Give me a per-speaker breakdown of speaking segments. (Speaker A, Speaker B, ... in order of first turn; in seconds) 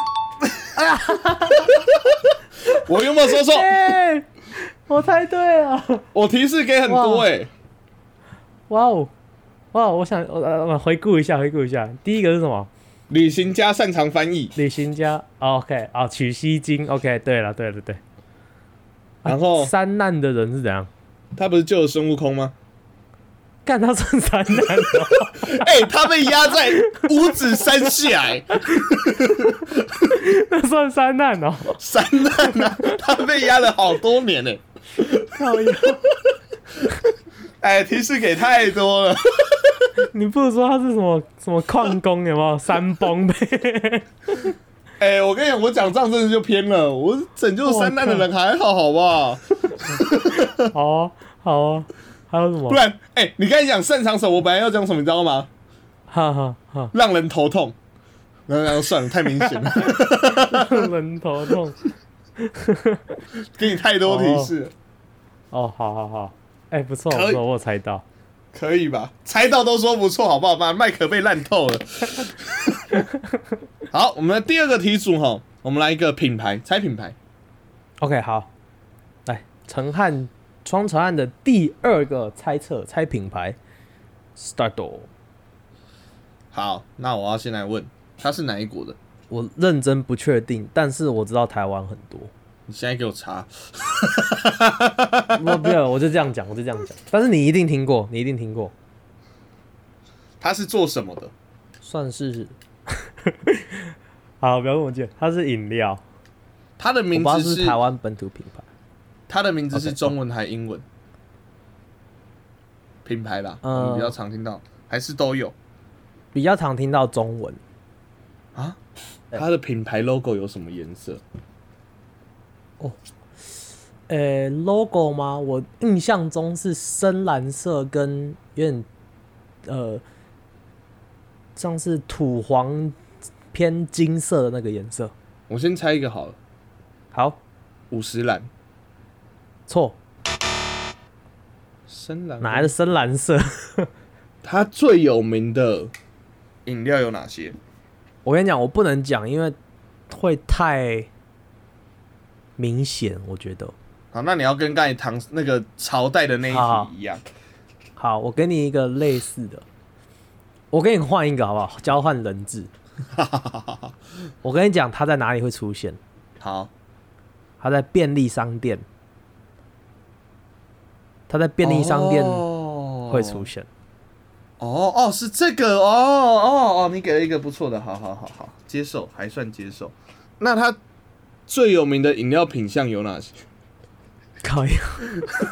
Speaker A: 0.4-0.7, 1.6-3.9, 6.1-7.5, 13.1-14.6, 19.3-19.7, 21.4-22.5, 25.1-29.9, 31.8-36.1, 37.6-39.9, 45.0-50.7, 52.7-55.5, 56.9-57.8, 58.5-60.9, 63.5-64.7, 67.1-67.4, 68.5-73.0, 73.9-77.2, 86.5-89.0, 92.7-95.4, 100.4-101.3, 106.8-107.8, 109.3-110.8, 113.0-115.5, 119.3-121.2, 135.5-136.4, 137.9-138.5, 141.9-142.7, 144.4-145.9, 146.7-147.6, 154.1-157.2, 163.1-163.9, 166.4-166.7, 171.6-173.5, 174.6-180.8, 181.5-183.3
Speaker B: 0.8-1.9, 3.2-6.1, 6.9-7.3, 8.7-9.1, 9.7-12.7, 14.6-18.0, 19.2-20.9, 23.6-25.7, 26.4-27.9, 28.7-31.8, 32.4-33.0, 35.2-36.0, 40.1-44.5, 47.6-48.2, 49.9-52.8, 56.1-56.9, 59.4-61.8, 62.4-63.2, 64.1-64.5, 65.5-68.0, 78.0-78.5, 79.3-83.6, 84.4-85.1, 89.3-92.3, 95.3-98.7, 101.8-106.0, 107.1-108.7, 109.7-110.1, 113.6-114.2, 116.3-117.6, 124.1-128.9, 129.7-130.0, 131.6-133.0, 133.5-135.1, 137.1-137.4, 139.7-140.0, 142.4-143.9, 148.2-149.6, 150.1-151.1, 152.6-153.7, 156.5-156.9, 158.0-159.7, 160.7-162.7, 164.4-166.0, 167.6-168.8, 171.3-172.4, 173.1-173.7, 184.4-185.1